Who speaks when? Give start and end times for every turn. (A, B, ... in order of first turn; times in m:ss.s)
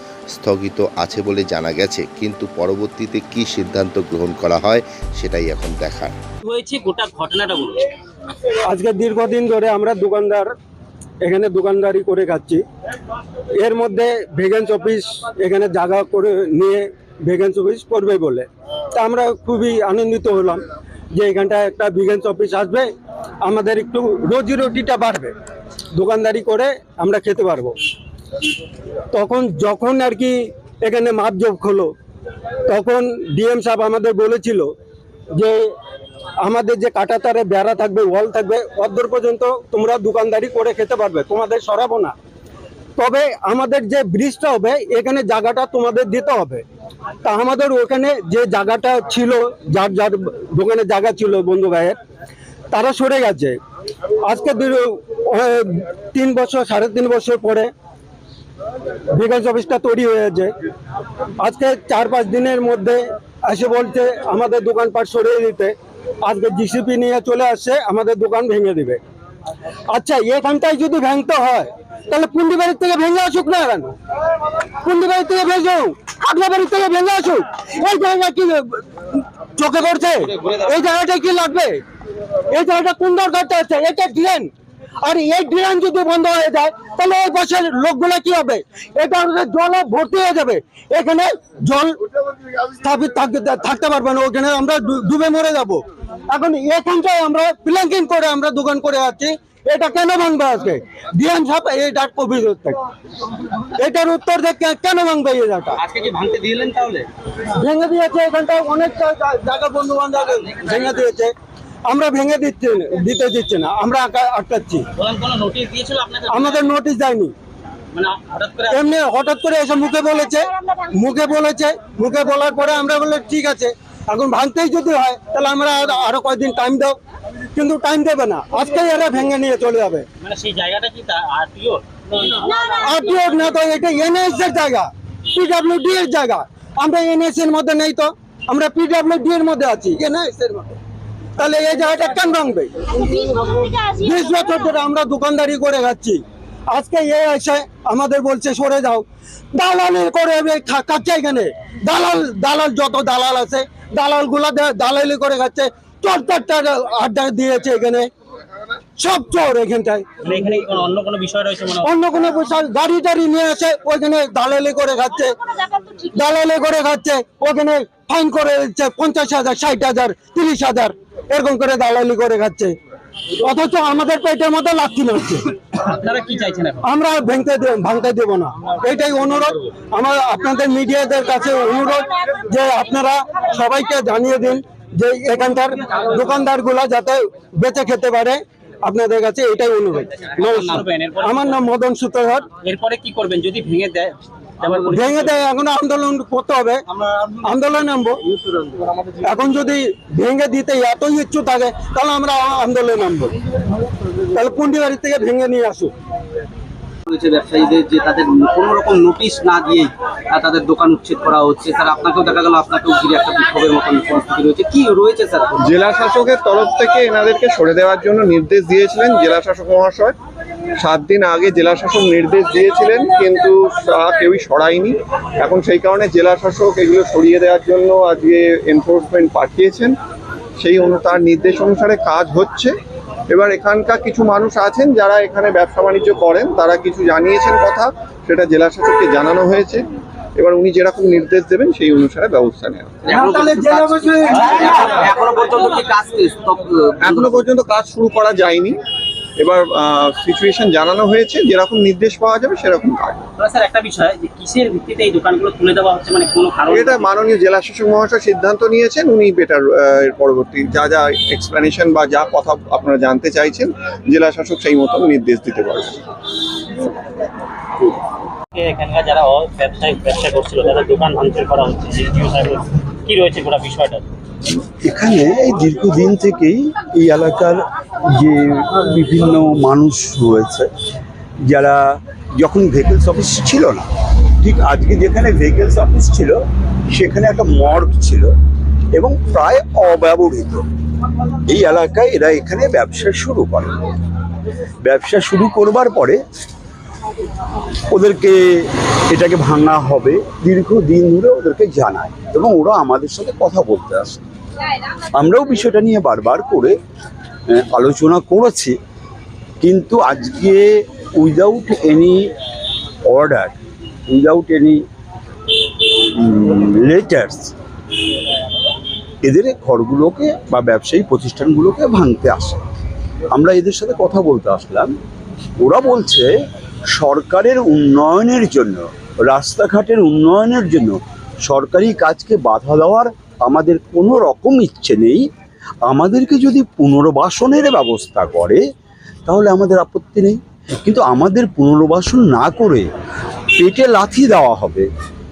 0:00.4-0:06.1 A
0:06.4-0:07.9 B
0:08.6-0:10.5 C
0:11.2-0:12.6 C
0:13.6-0:22.9 C
0:23.4-0:25.3 C
0:25.9-0:27.7 C
0:29.1-0:31.9 C
0:32.7-0:34.7 C
0:35.3-0:35.7 C
0:36.4-0:42.2 C
0:43.0-0:46.6 C
0:47.2-0:52.0 C
0:52.7-0:53.6 C
0:54.2-0:57.7 C
0:59.1-1:00.5 C
1:01.4-1:09.0 C
1:09.9-1:14.0 C
1:14.8-1:21.8 C
1:22.5-1:24.5 C
1:25.0-1:32.0 C
1:32.8-1:42.8 C
1:43.7-1:45.8 C
1:45.8-1:47.1 B
1:47.5-1:51.3 C
1:51.9-1:54.9 C
1:55.0-1:56.7 B
1:56.3-1:57.3 C
1:57.9-1:58.8 B
1:58.7-2:07.0 C
2:07.5-2:10.1 C
2:10.2-2:11.8 B
2:12.7-2:20.7 C
2:21.4-2:38.1 C
2:39.0-2:40.0 C
2:40.2-2:41.9 B
2:41.8-2:52.8 C
2:53.4-2:55.5 C
2:55.8-2:56.9 B
2:56.8-3:12.5 C
3:10.4-3:11.6 B
3:12.6-3:15.4 B
3:14.9-3:16.8 C
3:17.4-3:18.2 C
3:19.2-3:23.4 C
3:24.3-3:25.9 C
3:27.1-3:35.5 D
3:35.6-3:40.2 E
3:40.8-3:50.0 E
3:50.6-3:52.8 E
3:53.3-4:03.3 E
4:03.1-4:07.4 D
4:03.1-4:04.9 C
4:07.0-4:08.8 E
4:09.4-4:13.2 E
4:13.4-4:17.1 B
4:16.7-4:26.0 E
4:28.6-4:34.0 B
4:34.7-4:40.7 F
4:41.5-4:43.9 F
4:44.4-4:46.4 F
4:46.9-4:48.3 F
4:48.9-4:50.6 F
4:51.5-4:53.8 F
4:54.8-4:56.2 F
4:57.9-5:04.2 F
5:05.2-5:06.8 F
5:07.5-5:08.8 F
5:09.6-5:12.3 F
5:13.1-5:13.6 F
5:14.1-5:14.8 F
5:15.9-5:17.5 F
5:19.2-5:22.6 F
5:23.3-5:25.0 F
5:25.6-5:26.3 F
5:26.9-5:35.3 F
5:35.8-5:38.6 F
5:39.3-5:42.9 F
5:43.6-5:44.9 F